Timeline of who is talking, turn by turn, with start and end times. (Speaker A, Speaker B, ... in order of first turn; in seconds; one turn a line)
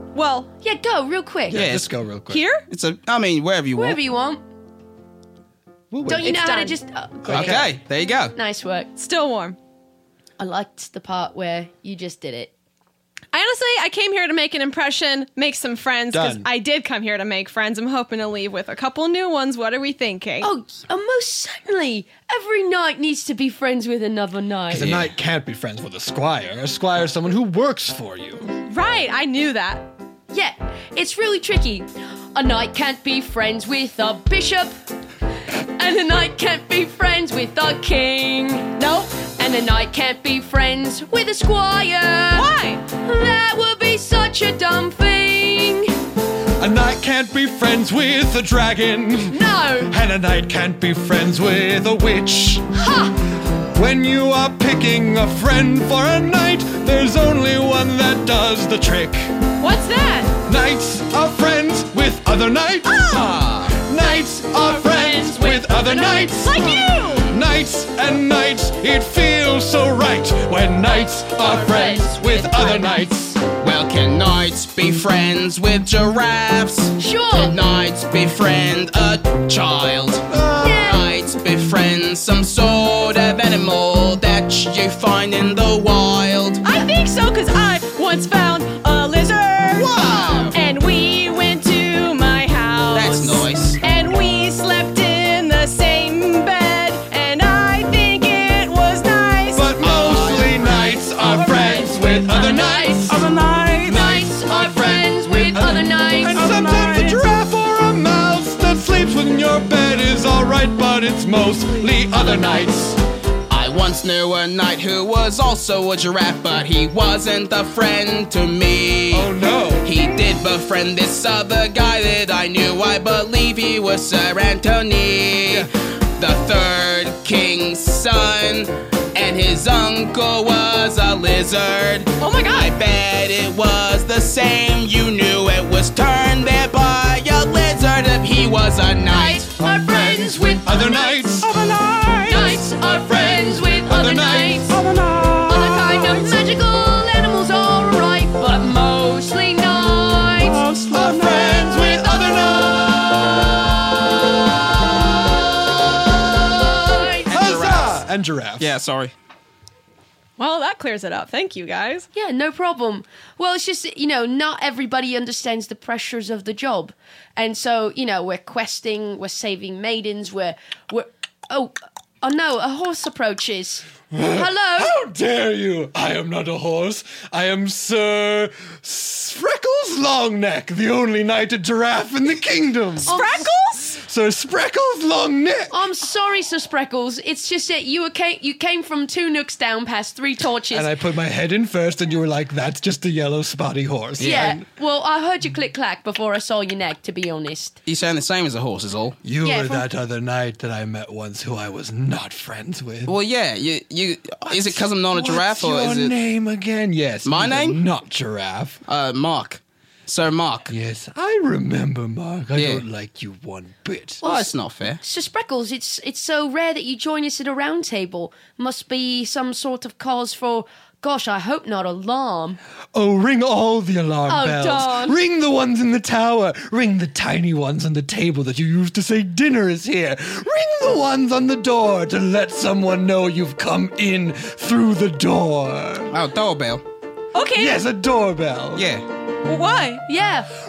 Speaker A: 0.1-0.5
Speaker B: 0.6-1.6
Speaker C: 1.5-2.5
Speaker D: 1.5-1.9
Speaker A: 2.3-2.6
Speaker D: 2.7-4.0
Speaker B: 3.8-4.4
Speaker C: 5.9-6.4
Speaker B: 6.1-7.7
Speaker A: 6.2-6.8
Speaker C: 7.2-7.8
Speaker D: 7.3-8.3
Speaker B: 8.3-8.9
Speaker A: 9.0-9.6
Speaker B: 10.4-12.5
Speaker A: 13.3-20.5
Speaker C: 16.1-16.5
Speaker B: 20.4-24.9
Speaker C: 24.7-28.5
Speaker D: 24.7-25.1
Speaker A: 28.6-29.9
Speaker B: 30.3-34.7
Speaker B: 35.8-45.9
Speaker A: 38.8-39.3
Speaker A: 42.3-42.8
Speaker C: 46.6-52.6
Speaker B: 49.3-49.9
Speaker B: 52.8-53.1
Speaker C: 53.8-59.4
Speaker A: 59.6-60.4
Speaker C: 60.5-66.7
Speaker D: 63.1-63.8
Speaker B: 64.0-67.0
Speaker A: 66.4-67.3
Speaker C: 67.3-73.4
Speaker B: 70.8-73.2
Speaker D: 73.6-80.3
Speaker B: 77.0-77.5
Speaker C: 80.3-81.0
Speaker B: 80.6-81.0
Speaker D: 80.8-86.6
Speaker A: 86.6-99.8
Speaker D: 89.7-90.5
Speaker D: 92.9-93.8
Speaker C: 99.5-103.2
Speaker D: 99.8-100.6
Speaker B: 101.2-103.2
Speaker D: 103.1-104.1
Speaker C: 103.8-113.0
Speaker B: 103.9-106.6
Speaker D: 106.3-107.3
Speaker B: 112.1-112.7
Speaker D: 113.5-119.3
Speaker C: 119.1-120.0
Speaker D: 119.8-139.5
Speaker A: 132.2-132.7
Speaker B: 139.1-141.3
Speaker C: 139.6-141.7
Speaker D: 141.4-142.6
Speaker B: 142.3-144.8
Speaker C: 142.3-144.8
Speaker D: 144.7-145.9
Speaker B: 145.5-150.6
Speaker D: 150.4-151.5
Speaker C: 150.9-153.6
Speaker B: 151.3-153.1
Speaker B: 155.0-158.0
Speaker C: 157.3-158.7
Speaker D: 157.3-158.0
Speaker D: 158.6-159.1
Speaker A: 160.4-162.1
Speaker B: 162.1-174.9
Speaker C: 174.1-183.2
Speaker A: 183.0-184.0
Speaker B: 183.1-183.5
Speaker C: 183.9-185.8
Speaker B: 185.7-190.9
Speaker C: 190.7-194.6
Speaker D: 194.2-194.6
Speaker B: 194.2-197.8
Speaker D: 197.8-199.2
Speaker C: 199.2-203.2
Speaker B: 199.4-199.9
Speaker D: 203.1-206.1
Speaker C: 204.5-208.8
Speaker D: 207.2-207.8
Speaker D: 208.9-210.7
Speaker C: 210.7-214.2
Speaker D: 212.5-212.8
Speaker D: 214.2-215.0
Speaker B: 214.2-222.6
Speaker C: 222.9-236.1
Speaker B: 224.3-225.2
Speaker D: 236.1-236.8
Speaker A: 237.3-237.8
Speaker C: 237.5-238.9
Speaker D: 238.8-239.0
Speaker A: 239.4-240.0
Speaker B: 240.1-240.5